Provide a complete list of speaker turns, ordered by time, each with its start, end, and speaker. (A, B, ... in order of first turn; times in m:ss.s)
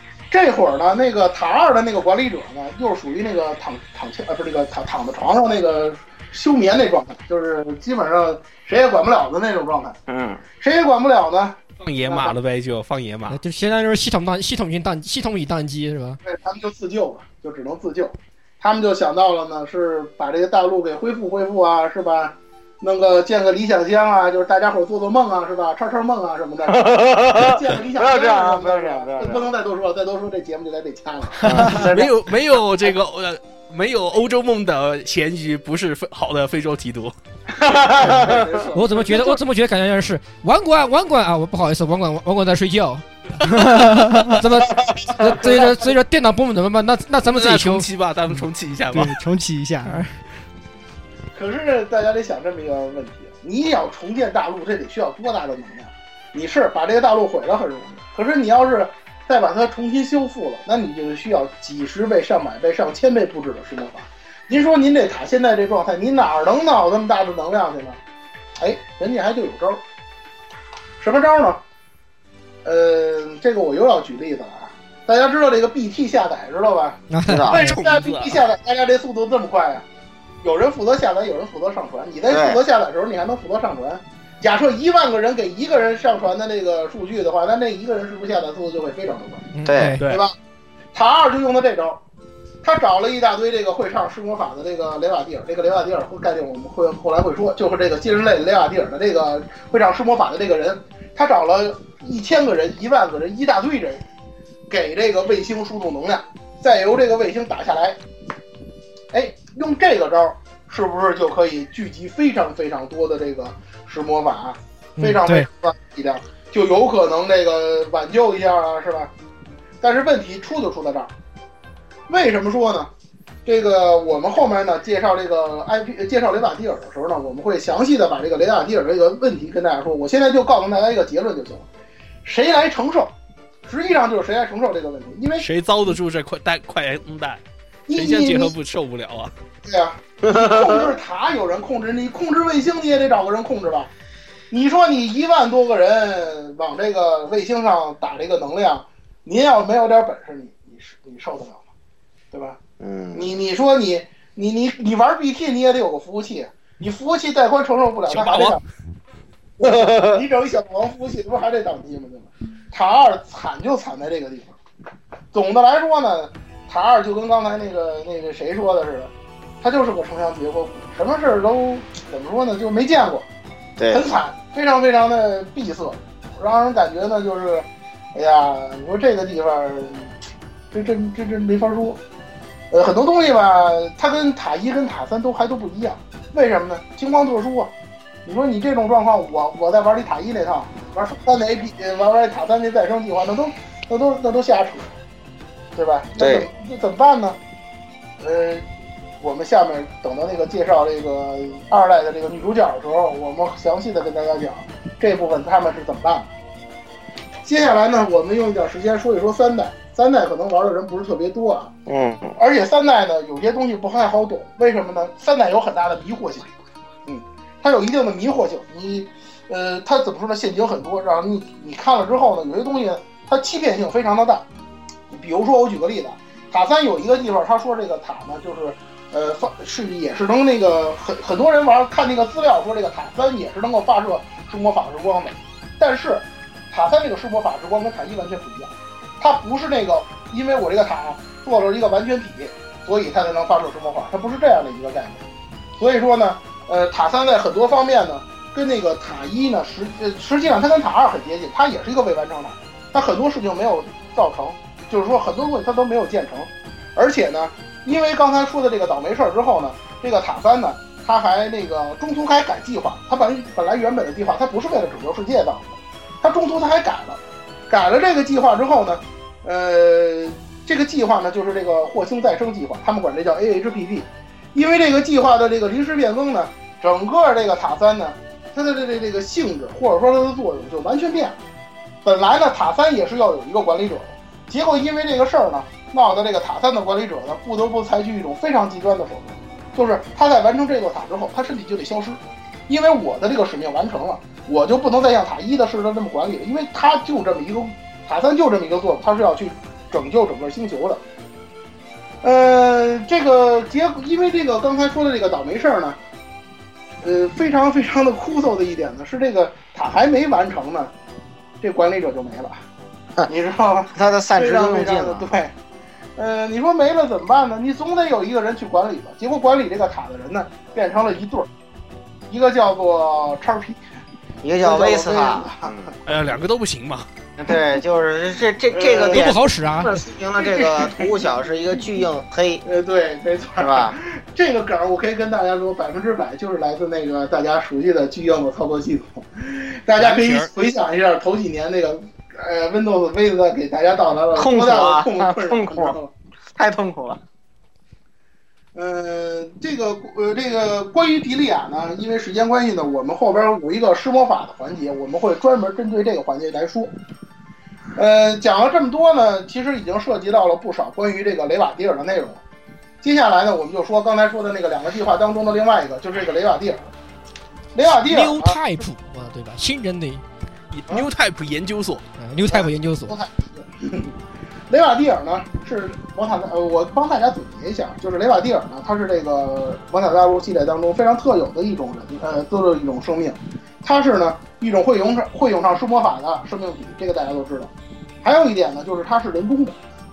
0:00.3-0:10.0 A
0:10.1-0:10.4 B
0:10.6-0:12.4 A
0:11.8-0:13.4 C
0:13.3-0:16.2 D
0:16.2-0:31.9 A
0:26.7-0:29.5 B
0:31.4-0:31.8 E
0:31.4-0:32.1 B
0:31.9-0:37.1 C
0:37.6-0:39.0 B
0:38.2-0:38.6 A
0:38.7-0:43.0 D
0:43.5-0:44.4 E
0:43.6-0:47.9 D
0:45.3-0:46.0 A
0:47.2-0:49.2 C
0:48.3-0:50.0 E
0:49.9-0:50.1 D
0:51.3-1:08.0 A
1:08.6-1:09.8 A
1:11.0-1:11.6 A
1:12.6-1:19.8 A
1:17.1-1:17.8 D
1:17.3-1:17.6 B
1:17.5-1:18.4 C
1:20.4-1:29.5 A
1:22.3-1:22.6 B
1:29.5-1:30.0 D
1:29.6-1:30.0 B
1:30.0-1:30.2 C
1:30.0-1:30.4 A
1:30.9-1:32.0 A
1:32.6-1:44.0 A
1:44.7-1:48.0 A
1:49.1-1:59.1 A
1:55.0-1:55.4 D
1:59.8-2:01.1 A
2:02.1-2:02.9 A
2:03.4-2:11.7 A
2:12.2-2:13.1 A
2:13.6-2:15.5 A
2:15.4-2:17.4 C
2:17.9-2:18.5 A
2:17.9-2:19.3 C
2:19.6-2:23.9 A
2:20.2-2:21.0 B
2:24.5-2:31.6 A
2:32.3-2:32.6 A
2:32.8-2:33.4 B
2:33.1-2:38.6 A
2:38.1-2:38.6 C
2:39.6-2:44.6 A
2:39.6-2:40.2 B
2:45.3-2:53.3 A
2:53.8-2:54.1 B
2:53.9-3:00.1 A
3:00.7-3:02.0 A
3:02.7-3:07.7 A
3:08.2-3:14.9 A
3:15.8-3:17.4 A
3:16.2-3:16.5 B
3:18.2-3:18.6 A
3:19.2-3:26.3 A
3:27.4-3:31.8 A
3:31.9-3:32.4 B
3:32.4-3:36.5 A
3:37.1-3:44.5 A
3:45.1-4:05.2 A
4:05.8-4:41.4 A
4:42.0-5:01.0 A
5:02.2-5:06.0 A
5:07.0-5:10.9 A
5:11.6-5:12.6 A
5:13.3-5:15.5 A
5:14.0-5:15.3 B
5:16.2-5:21.5 A
5:22.3-5:23.8 A
5:24.4-5:25.9 B
5:24.6-5:25.8 A
5:26.1-5:27.1 C
5:27.4-5:32.6 B
5:28.7-5:29.3 A
5:29.1-5:30.0 D
5:30.3-5:32.0 A
5:32.6-5:46.1 A
5:33.6-5:34.0 B
5:40.0-5:40.5 C
5:44.4-5:46.0 B
5:46.6-5:47.2 B
5:48.8-5:56.9 A
5:58.0-6:02.4 A
6:03.0-6:06.9 A
6:07.8-6:08.6 A
6:07.9-6:10.2 D
6:10.7-6:12.0 C
6:12.2-6:13.2 D
6:12.5-6:14.1 A
6:14.7-6:27.7 A
6:28.2-6:29.8 A